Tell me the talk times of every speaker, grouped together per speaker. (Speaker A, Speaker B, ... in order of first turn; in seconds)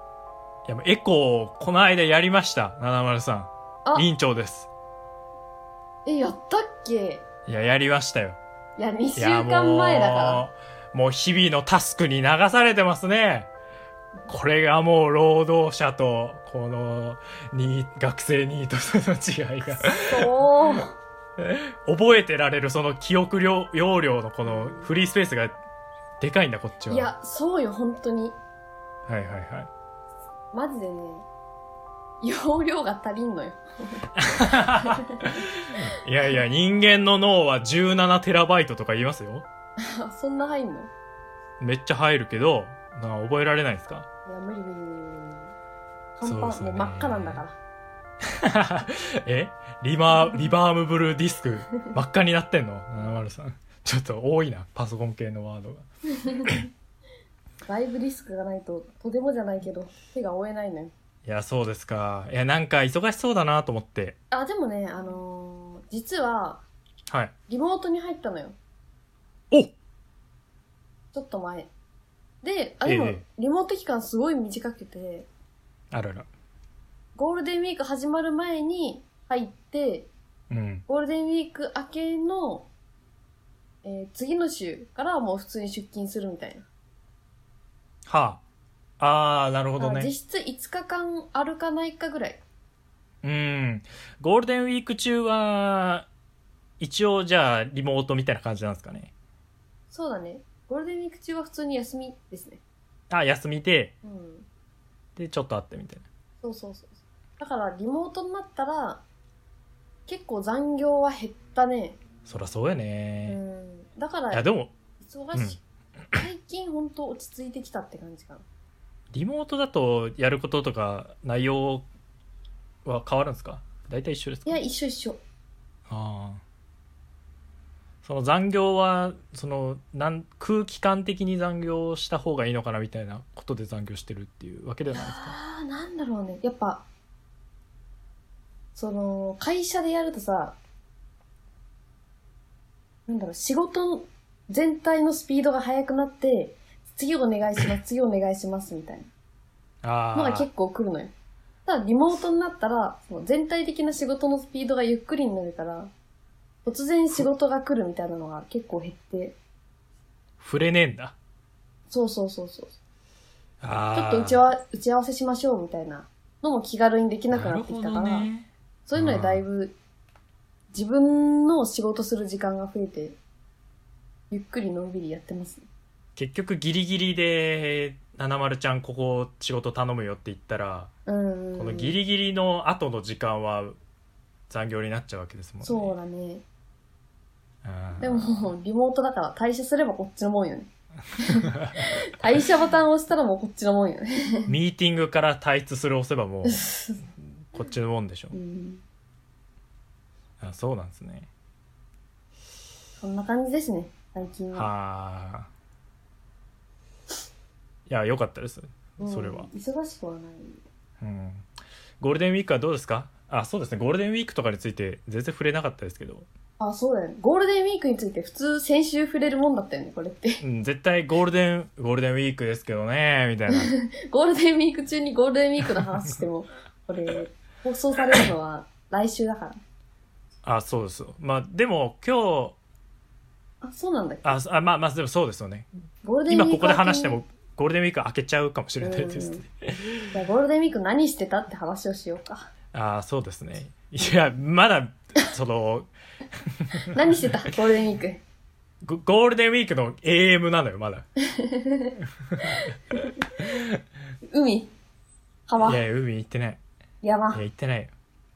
Speaker A: 0.7-4.7, 7.5-8.4, 9.2-13.5, 14.3-20.3, 21.4-25.6, 26.2-27.1, 29.1-29.7, 34.2-39.5, 41.6-44.1, 46.2-47.4, 48.2-55.9, 61.2-64.2, 72.8-73.2, 75.9-76.3, 80.5-80.8, 88.1-88.4, 89.0-90.1, 93.2-96.1, 96.8-99.1, 103.1-103.9, 105.2-106.0, 112.3-113.4, 114.3-114.7, 119.1-121.9, 122.8-124.6, 125.9-126.4, 128.0-135.4, 149.8-150.5, 160.4-161.2, 163.6-164.4, 167.3-169.4, 176.2-180.9, 181.6-183.8, 184.5-185.9, 187.6-188.4, 191.2-192.0, 194.5-196.6, 197.5-198.4, 200.4-201.3, 204.5-205.5, 207.9-209.5, 211.0-211.5, 212.0-216.3, 220.4-223.7, 230.4-232.6, 234.2-235.7, 236.3-239.8, 242.7-247.3, 248.8-251.1, 252.2-253.8, 255.6-256.6, 257.3-257.9
Speaker B: 6.0-7.2, 8.8-10.4, 19.7-21.0, 24.5-24.9, 26.9-28.4, 30.5-31.2, 32.2-35.5, 39.8-40.9, 44.3-45.5, 46.2-47.6, 56.2-56.7, 57.7-60.9, 64.3-66.6, 67.5-68.6, 71.1-71.7, 72.4-75.3, 77.2-80.1, 80.9-82.7, 83.8-86.7, 89.8-92.4, 99.9-102.6, 104.0-104.5, 106.4-109.0, 110.1-112.0, 113.3-114.5, 115.0-115.6, 116.1-118.5, 124.5-125.2, 134.9-136.8, 138.8-140.6, 143.1-149.1, 150.2-151.1, 151.7-155.9, 156.7-159.4, 161.9-162.8, 163.9-168.3, 168.9-169.8, 170.7-173.2, 174.3-175.6, 181.1-182.0, 185.6-186.4, 188.0-194.5, 196.4-197.0, 198.3-198.8, 203.0-204.7, 209.0-210.6, 216.6-220.4, 223.5-229.6, 233.6-234.3, 236.0-237.2, 238.8-239.4, 240.1-242.5, 246.9-248.2, 251.2-253.1, 254.3-254.7, 255.5-255.8, 257.0-257.4